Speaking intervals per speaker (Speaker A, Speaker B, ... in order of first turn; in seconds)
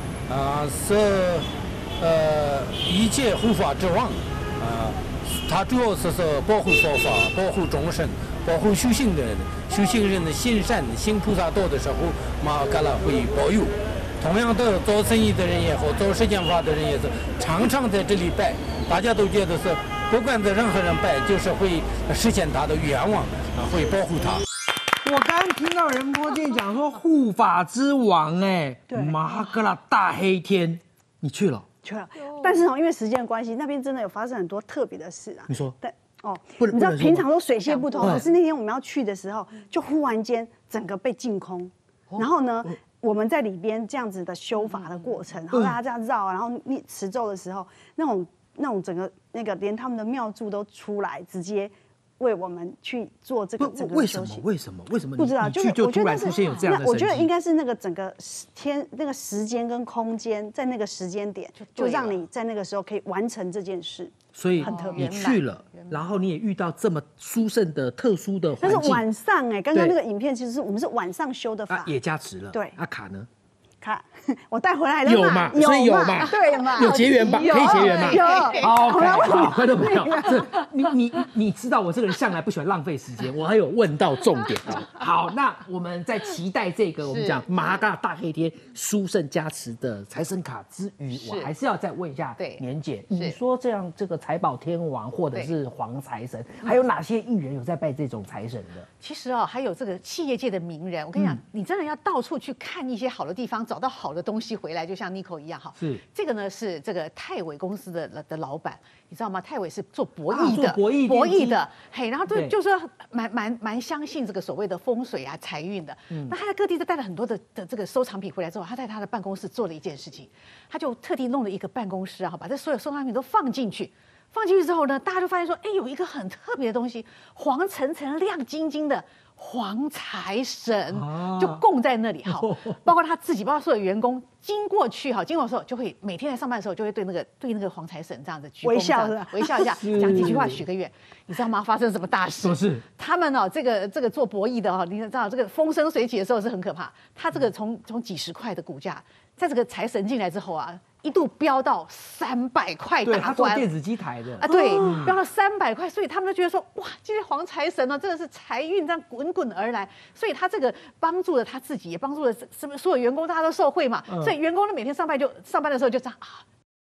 Speaker A: 0.3-24.4
Speaker B: 25.0-31.6, 35.5-35.8, 36.6-37.2, 38.0-38.3, 42.1-42.7, 45.5-45.8, 53.6-57.3, 64.3-69.1, 71.7-73.3, 75.0-98.9, 101.1-101.4, 105.8-106.0, 110.3-111.6, 112.3-112.5, 116.1-116.4, 130.9-131.6, 132.2-132.9, 139.6-140.6, 142.4-142.8, 153.0-155.2, 164.1-164.3
Speaker C: 28.9-29.2, 31.8-54.5, 55.2-65.3, 68.6-71.9, 73.8-80.6, 138.6-140.3, 154.5-155.1
Speaker D: 32.2-32.6, 37.6-38.3, 44.5-45.1, 56.2-56.7, 61.6-62.2, 64.6-66.0, 76.7-79.5, 80.2-80.7, 84.4-85.0, 87.0-87.5, 91.1-91.5, 92.4-93.4, 99.0-153.7, 154.3-166.4